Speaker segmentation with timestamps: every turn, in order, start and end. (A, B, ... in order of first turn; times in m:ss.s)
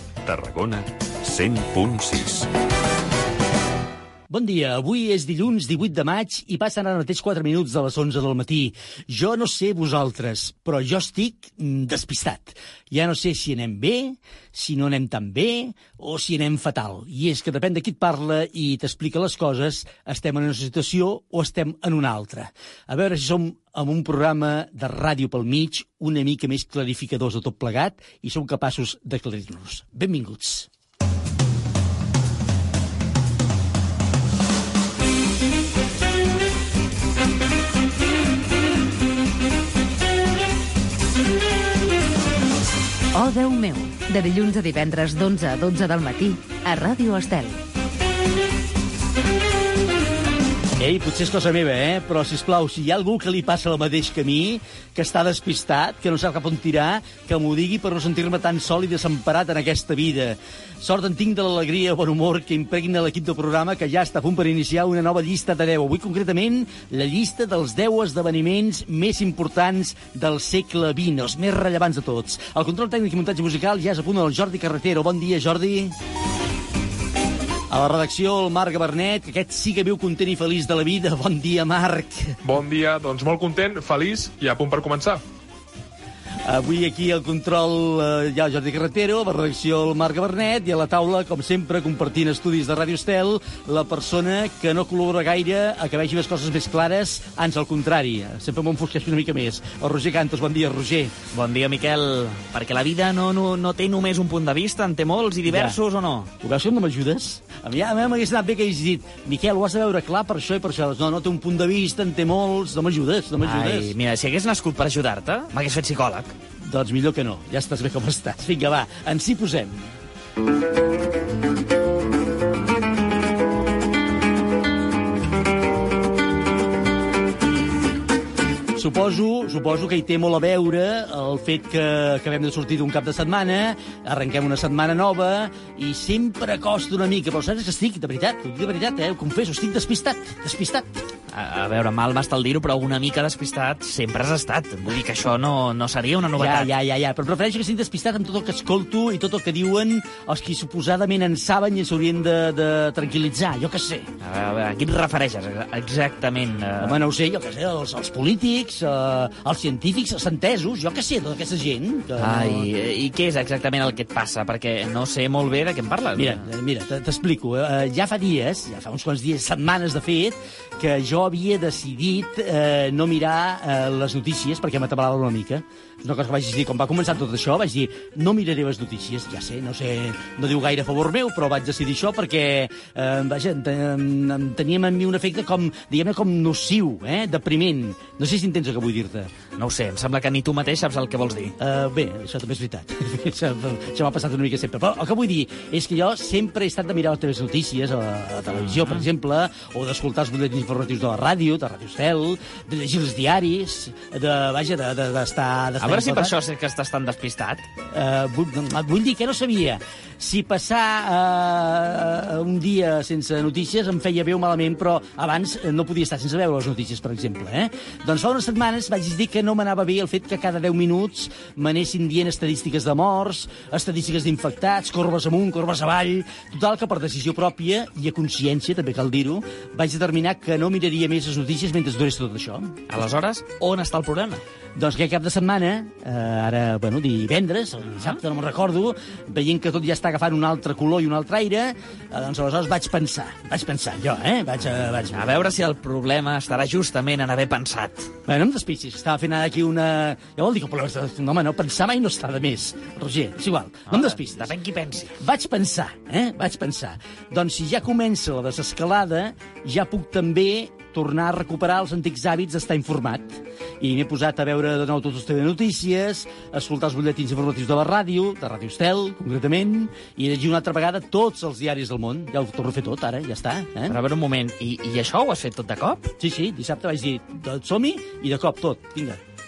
0:00.2-0:02.5 A
0:04.3-0:30.7 B
0:43.1-0:47.6 C
0:50.8-1:16.0 B
1:17.7-1:22.4 B
1:22.4-1:25.2 D
1:26.4-1:41.2 B
1:41.3-1:46.3 E
1:45.4-1:45.8 B
1:46.4-1:53.9 B
1:53.4-1:56.4 E
1:56.6-1:59.9 B
2:08.8-2:21.0 B
2:21.3-2:26.7 E
2:26.4-2:34.1 B
2:34.2-2:37.0 E
2:36.8-2:42.7 B
2:42.2-2:46.5 E
2:46.2-3:09.3 B
3:09.6-3:11.6 E
3:11.6-3:26.4 B
3:18.6-3:19.1 E
3:25.8-3:27.7 E
3:27.9-3:52.8 B
3:52.9-3:54.4 E
3:54.8-4:05.5 B
4:05.1-4:08.1 E
4:08.3-4:14.5 B
4:13.9-4:15.1 E
4:15.2-4:34.0 B
4:33.9-4:36.1 E
4:36.2-4:39.2 B